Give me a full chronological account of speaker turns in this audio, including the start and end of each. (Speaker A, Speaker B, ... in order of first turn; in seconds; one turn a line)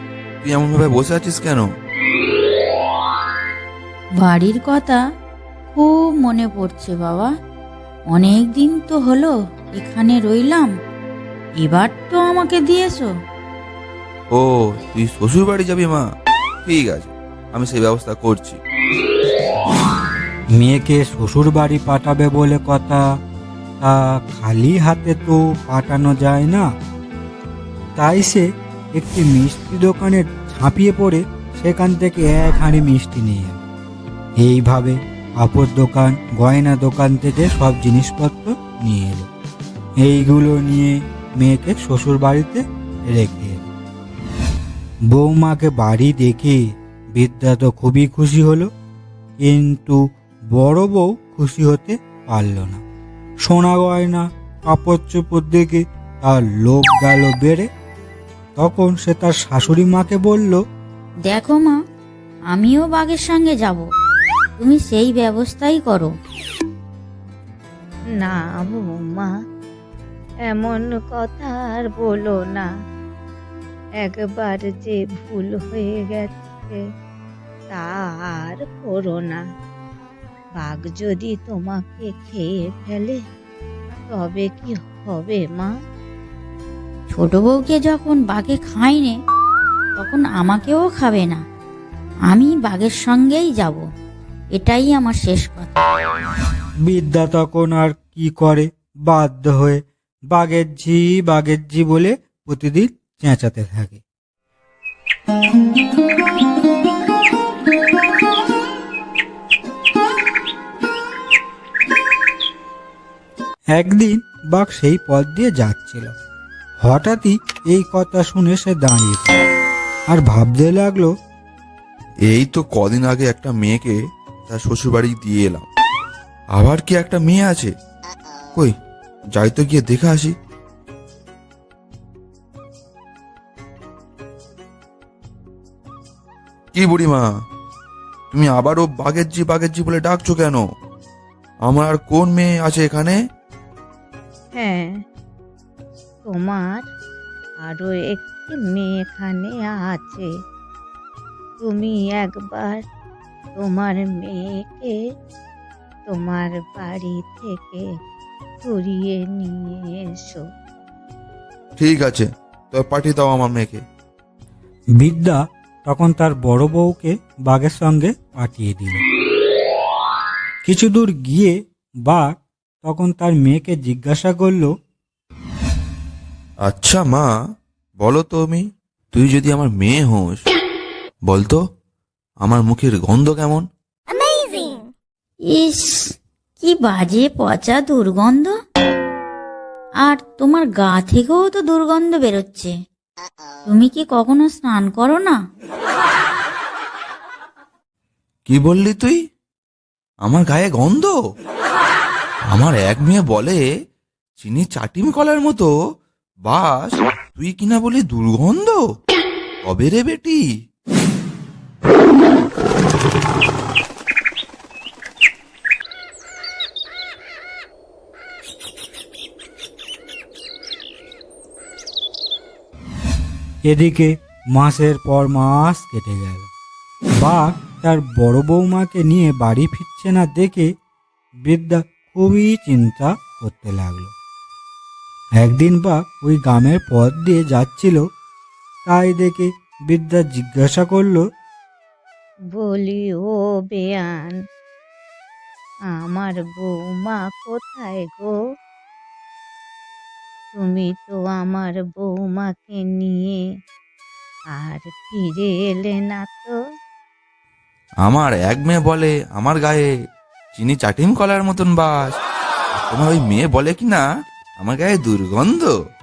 Speaker A: 0.4-1.7
Speaker B: 4.1-5.0
Speaker B: 5.7-7.3
Speaker B: 8.1-10.7
Speaker B: 11.6-13.1
Speaker A: 14.3-16.0
Speaker A: 16.6-18.6
Speaker C: 20.6-23.0
Speaker C: 23.8-26.6
Speaker C: 28.0-33.6
Speaker C: 34.4-39.3
Speaker C: 40.0-43.7
Speaker C: 45.1-46.6
Speaker C: 47.1-48.7
Speaker C: 49.4-50.0
Speaker C: 50.5-52.8
Speaker C: 53.4-57.7
Speaker C: 58.6-60.6
Speaker B: 61.2-61.8
Speaker B: 62.5-63.9
Speaker B: 64.6-66.1
Speaker D: 68.2-69.3
Speaker D: 70.5-72.7
Speaker D: 74.0-76.8
Speaker D: 77.7-79.4
Speaker D: 80.6-83.2
Speaker D: 84.1-85.7
Speaker B: 87.1-89.2
Speaker B: 90.0-91.4
Speaker B: 92.3-93.8
Speaker B: 94.5-95.8
Speaker C: 96.8-99.8
Speaker C: 100.3-104.0
Speaker C: 113.7-116.1
Speaker C: 116.8-119.4
Speaker C: 120.1-121.1
Speaker A: 122.3-124.0
Speaker A: 124.5-125.7
Speaker A: 126.5-127.7
Speaker A: 129.3-130.3
Speaker A: 136.7-137.3
Speaker A: 138.3-140.6
Speaker A: 141.7-143.2
Speaker D: 144.6-144.9
Speaker D: 146.2-146.8
Speaker D: 147.7-150.3
Speaker D: 151.6-152.8
Speaker D: 153.6-154.9
Speaker D: 156.1-157.8
Speaker D: 158.6-160.4
Speaker A: 161.8-163.8
Speaker C: 165.0-169.0
Speaker C: 170.6-171.5
Speaker C: 172.1-174.7
Speaker A: 176.6-177.3
Speaker A: 178.0-180.4
Speaker A: 181.3-181.6
Speaker A: 182.4-183.7
Speaker B: 185.4-188.5
Speaker B: 190.0-192.7
Speaker B: 193.7-195.4
Speaker A: 198.5-199.2
Speaker A: 200.2-201.2
Speaker A: 202.5-203.6
Speaker A: 204.4-205.7
Speaker A: 206.4-208.8
Speaker A: 209.6-210.4
Speaker C: 223.7-226.5
Speaker C: 227.2-230.7
Speaker C: 231.4-234.1
Speaker C: 235.4-238.0
Speaker C: 238.8-241.2
Speaker D: 242.5-244.3
Speaker D: 245.9-248.3
Speaker D: 250.5-253.3
Speaker D: 254.6-256.5
Speaker A: 258.0-259.9
Speaker A: 260.5-262.1
Speaker A: 262.8-264.0
Speaker A: 264.6-265.7